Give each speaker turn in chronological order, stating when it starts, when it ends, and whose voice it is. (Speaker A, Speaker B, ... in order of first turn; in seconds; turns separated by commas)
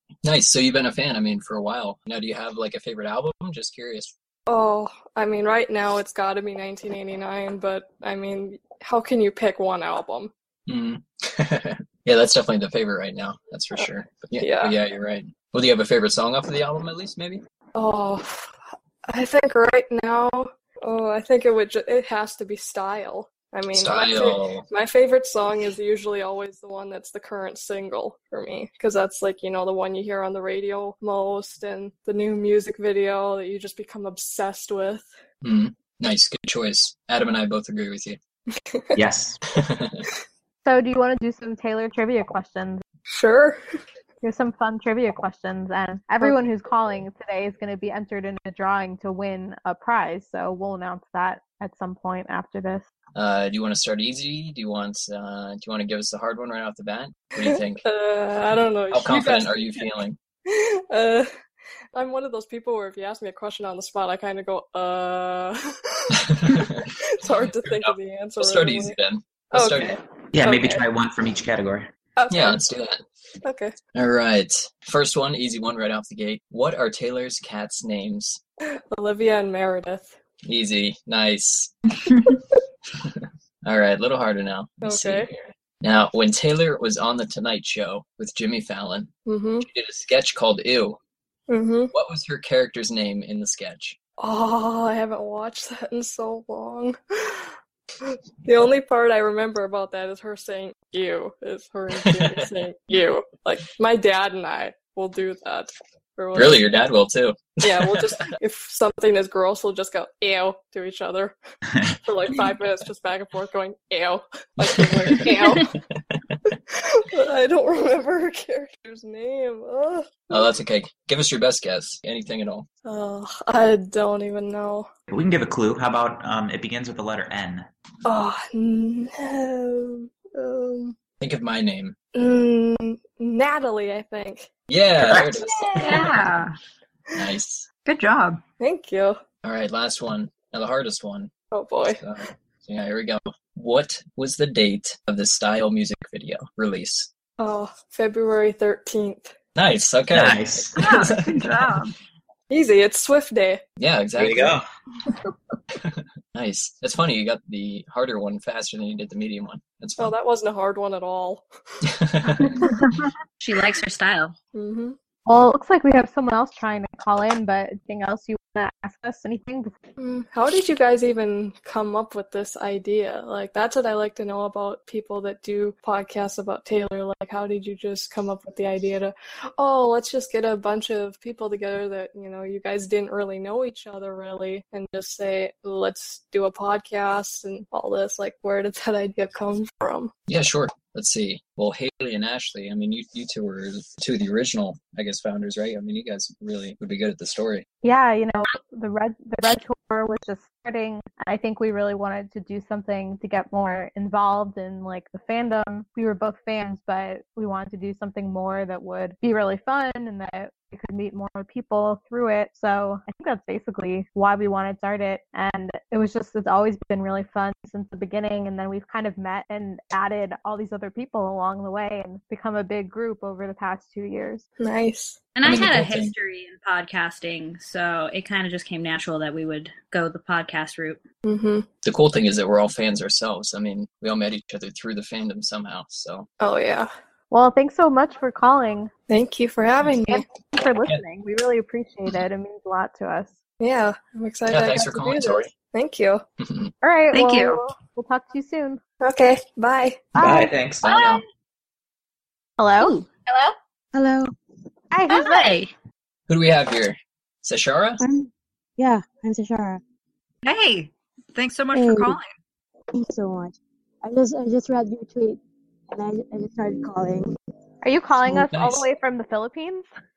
Speaker A: 0.2-4.1, Speaker B: 4.5-10.3, Speaker A: 10.7-17.4, Speaker B: 14.4-14.8, Speaker B: 17.7-35.1, Speaker A: 23.7-24.6, Speaker A: 35.4-38.2, Speaker B: 38.5-38.9, Speaker C: 39.0-39.4, Speaker A: 39.5-40.0, Speaker D: 40.6-42.8, Speaker B: 43.1-43.6, Speaker D: 44.2-52.8, Speaker A: 53.1-57.8, Speaker B: 57.4-59.9, Speaker A: 58.9-60.2, Speaker B: 60.5-61.4, Speaker B: 61.9-69.0, Speaker A: 66.2-66.9, Speaker A: 67.6-70.0, Speaker B: 69.5-70.8, Speaker C: 70.3-71.9, Speaker B: 72.2-72.6, Speaker A: 72.3-73.0, Speaker B: 73.4-73.7, Speaker A: 73.9-78.4, Speaker B: 78.7-80.2, Speaker A: 80.4-81.7, Speaker A: 83.0-91.0, Speaker B: 84.8-85.3, Speaker B: 89.2-89.7, Speaker B: 91.5-91.9, Speaker A: 91.9-94.0, Speaker B: 94.2-106.7, Speaker A: 101.9-102.5, Speaker A: 106.3-108.2, Speaker B: 107.6-111.3, Speaker B: 112.0-115.7, Speaker A: 114.6-116.3, Speaker B: 116.7-120.5, Speaker A: 120.3-122.7, Speaker B: 122.8-124.9, Speaker C: 125.1-127.7, Speaker B: 128.0-130.9, Speaker A: 131.2-131.9, Speaker B: 132.1-134.5, Speaker A: 134.7-136.1, Speaker E: 135.8-136.5, Speaker A: 137.1-137.7, Speaker E: 137.8-138.4, Speaker B: 138.6-139.2, Speaker A: 139.4-141.3, Speaker B: 141.5-142.0, Speaker A: 141.9-147.1, Speaker B: 147.4-149.3, Speaker A: 149.6-151.3, Speaker C: 150.1-151.2, Speaker E: 150.8-151.9, Speaker B: 152.5-153.6, Speaker A: 153.8-154.6, Speaker C: 154.2-154.6, Speaker A: 155.8-160.1, Speaker B: 160.0-161.5, Speaker A: 161.8-162.7, Speaker F: 163.4-164.3, Speaker B: 164.5-164.9, Speaker D: 165.2-169.7, Speaker B: 170.0-190.1, Speaker A: 190.3-197.7, Speaker D: 197.8-224.4, Speaker B: 224.6-225.2, Speaker F: 225.3-231.0, Speaker A: 225.4-226.1, Speaker B: 231.2-231.7, Speaker A: 231.8-236.3, Speaker B: 236.4-236.9, Speaker D: 237.3-238.9, Speaker B: 239.1-240.3, Speaker D: 240.1-243.3, Speaker B: 243.6-246.2, Speaker A: 244.5-245.5, Speaker A: 246.4-246.7, Speaker D: 246.8-248.8, Speaker E: 247.1-247.6, Speaker B: 249.0-250.1, Speaker D: 250.1-250.5, Speaker C: 250.2-250.9, Speaker A: 250.8-251.2, Speaker D: 252.6-252.9, Speaker G: 253.9-254.3, Speaker D: 254.9-255.5, Speaker F: 255.4-255.7, Speaker A: 256.3-258.0, Speaker G: 258.0-259.8, Speaker E: 260.4-262.3, Speaker G: 261.7-262.2, Speaker G: 262.9-267.3, Speaker D: 267.8-269.9, Speaker A: 268.5-268.9